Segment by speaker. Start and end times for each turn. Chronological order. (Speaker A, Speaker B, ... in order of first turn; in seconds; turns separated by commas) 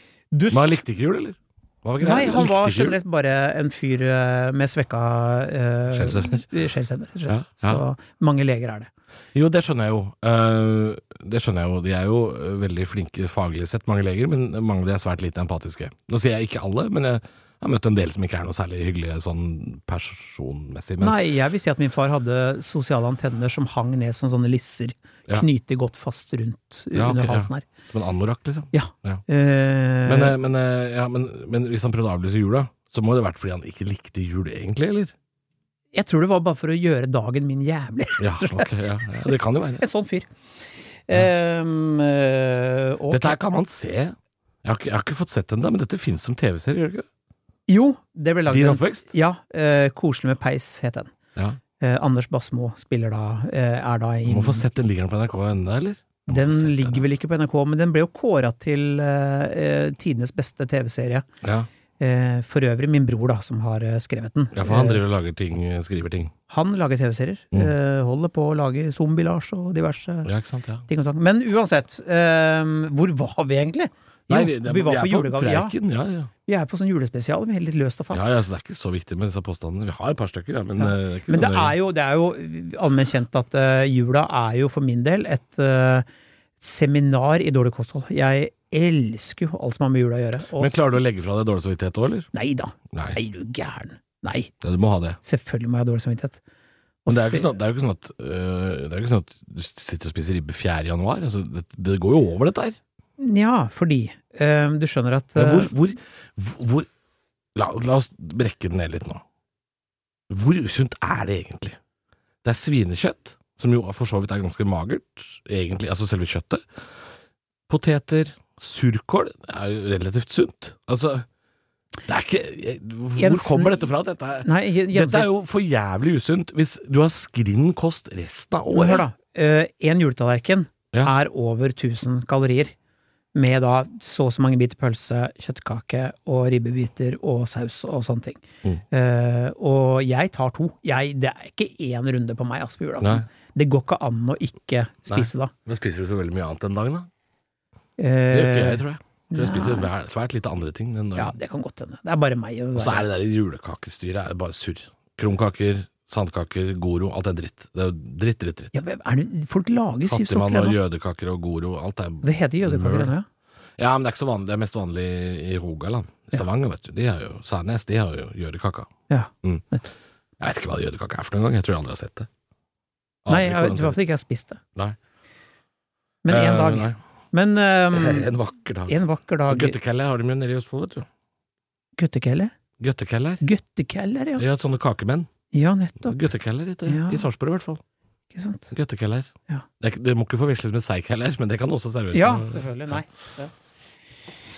Speaker A: 0.3-0.8, Speaker B: 0.5-3.0, Speaker A: 2.0-8.9, Speaker B: 5.9-6.5, Speaker B: 7.2-7.8, Speaker B: 9.3-21.2, Speaker A: 21.0-27.6, Speaker B: 26.9-29.2, Speaker A: 28.7-30.4, Speaker B: 30.0-35.1, Speaker A: 35.9-40.3, Speaker B: 38.2-39.8, Speaker A: 41.1-43.4, Speaker B: 43.1-47.0, Speaker A: 47.7-51.1, Speaker B: 48.5-49.1, Speaker A: 51.8-54.7, Speaker B: 54.2-57.1, Speaker A: 56.3-61.2, Speaker B: 61.4-61.7, Speaker A: 62.0-65.0, Speaker B: 64.5-66.3, Speaker A: 66.5-70.3, Speaker B: 70.2-70.8, Speaker A: 70.9-75.7, Speaker B: 74.3-76.3, Speaker A: 76.4-78.4, Speaker B: 78.1-81.8, Speaker A: 80.8-86.0, Speaker A: 86.6-90.8, Speaker B: 90.5-92.3, Speaker A: 92.3-94.5, Speaker B: 92.9-93.2, Speaker B: 94.6-95.2, Speaker A: 95.2-96.4, Speaker A: 97.0-97.5, Speaker B: 97.1-102.8, Speaker A: 103.2-105.7, Speaker B: 105.3-106.9, Speaker B: 107.5-109.2, Speaker B: 110.3-111.8, Speaker B: 112.4-116.6, Speaker B: 117.7-121.2, Speaker B: 122.1-129.1, Speaker A: 123.2-123.9, Speaker A: 124.4-125.3, Speaker A: 128.7-132.7, Speaker A: 133.3-145.5, Speaker B: 143.0-143.3, Speaker B: 145.1-147.1, Speaker A: 148.0-149.9, Speaker B: 148.3-151.3, Speaker A: 151.2-153.1, Speaker B: 152.8-158.8, Speaker A: 158.7-160.8, Speaker B: 160.1-163.1, Speaker A: 162.2-163.2, Speaker B: 163.8-168.9, Speaker A: 169.1-169.8, Speaker B: 170.4-172.3, Speaker B: 173.2-174.0, Speaker A: 173.3-174.6, Speaker A: 176.2-178.3, Speaker B: 176.3-177.0, Speaker B: 177.9-179.0, Speaker A: 178.9-179.8, Speaker B: 179.5-181.1, Speaker A: 182.0-182.5, Speaker B: 182.8-183.4, Speaker A: 183.4-184.4, Speaker B: 184.4-185.3, Speaker A: 185.5-186.2, Speaker B: 186.0-187.8, Speaker A: 186.8-187.2, Speaker A: 188.3-188.7, Speaker B: 188.7-189.3, Speaker B: 189.8-192.7, Speaker A: 192.1-193.5